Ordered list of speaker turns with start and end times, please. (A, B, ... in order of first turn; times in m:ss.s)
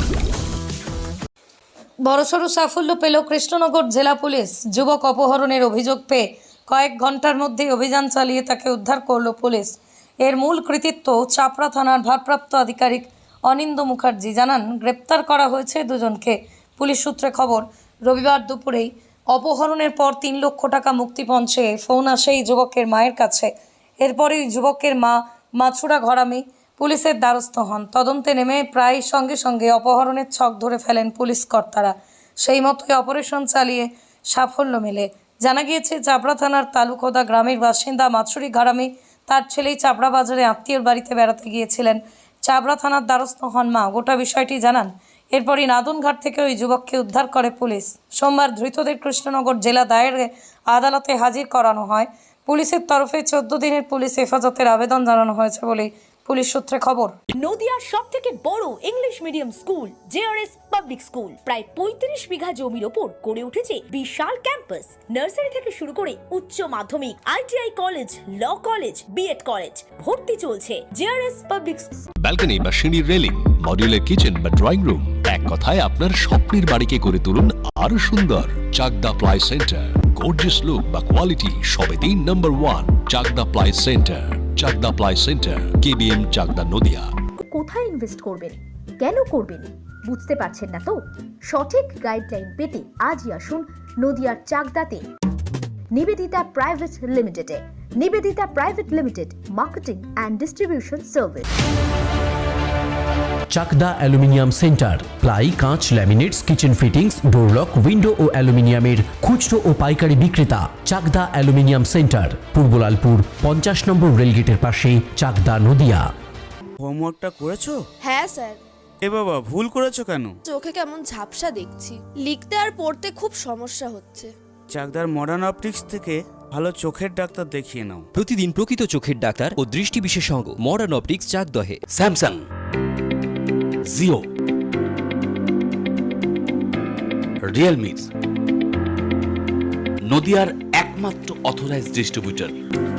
0:02.0-0:57.2 A
0:57.3-1:12.0 B
1:12.2-1:27.1 C
1:27.5-1:35.1 D
1:35.9-1:41.5 D
1:43.5-1:56.0 E
1:56.8-1:57.8 F
1:58.0-1:58.6 G
1:59.0-2:00.3 F
2:00.5-2:04.3 G
2:04.7-2:08.1 F
2:08.1-2:11.8 H
2:11.9-2:12.4 I
2:13.9-2:14.2 I
2:17.4-2:18.1 I
2:20.1-2:22.6 I